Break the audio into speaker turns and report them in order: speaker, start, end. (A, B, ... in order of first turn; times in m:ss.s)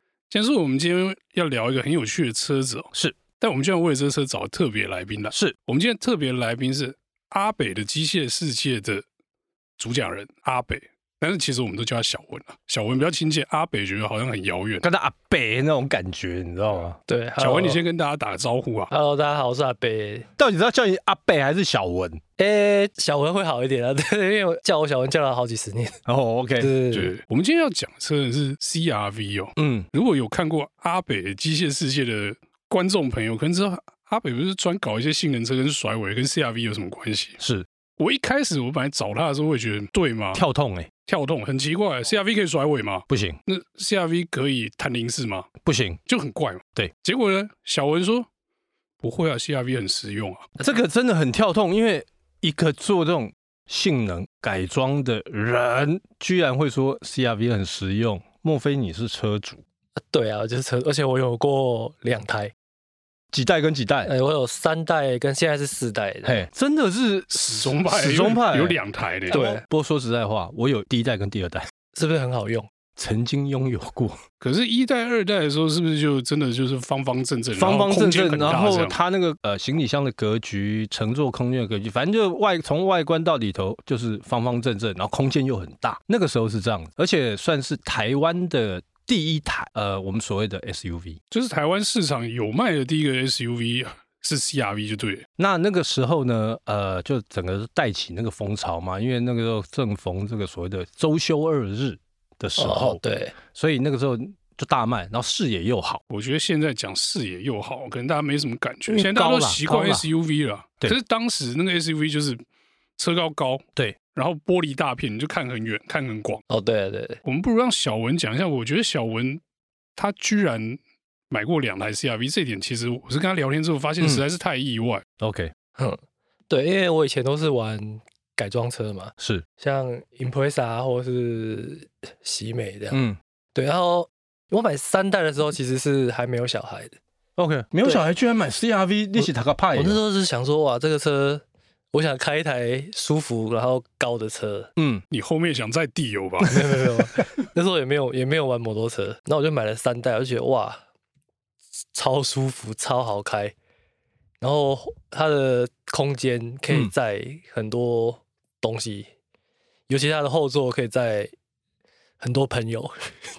0:00.3-0:09.0 A
0:09.8-0:14.9 A
0:14.8-0:17.0 B
0:17.1-0:17.8 C
0:17.4-0:18.9 A
0:18.9-0:20.3 C
0:20.4-0:22.2 B
0:22.4-0:26.0 C
0:26.1-0:26.7 B
0:26.6-0:27.1 C
0:26.9-0:37.4 A
0:29.6-0:29.9 B
0:37.4-0:37.7 B
0:38.0-0:40.4 A
0:40.3-0:40.9 B
0:41.1-0:45.5 A
0:43.1-0:43.4 B
0:45.6-0:46.0 B
0:46.1-0:48.3 A
0:49.0-0:50.5 A
0:50.6-0:59.6 B
1:00.1-1:02.5 C
1:03.3-1:04.1 B
1:04.0-1:06.5 C
1:06.2-1:11.7 B
1:07.3-1:09.4 A
1:09.3-1:09.6 C
1:11.9-1:12.7 C
1:13.0-1:14.2 B
1:14.4-1:19.0 A
1:17.6-1:31.2 B
1:31.3-1:35.2 A
1:35.4-1:46.0 B
1:42.6-1:43.4 C
1:46.1-1:52.4 A
1:48.9-1:50.1 B
1:53.0-1:56.4 A
1:56.5-1:57.2 C
1:57.2-1:59.4 A
2:00.0-2:05.0 A
2:05.2-2:05.5 B
2:06.5-2:13.0 C
2:09.2-2:09.4 B
2:12.9-2:13.2 B
2:13.6-2:17.0 C
2:17.4-2:20.0 B
2:19.2-2:24.7 C
2:24.8-2:25.0 B
2:25.1-2:26.6 A
2:26.4-2:30.8 C
2:31.9-2:33.5 C
2:34.4-2:39.1 C
2:39.9-2:41.3 C
2:42.2-2:43.1 C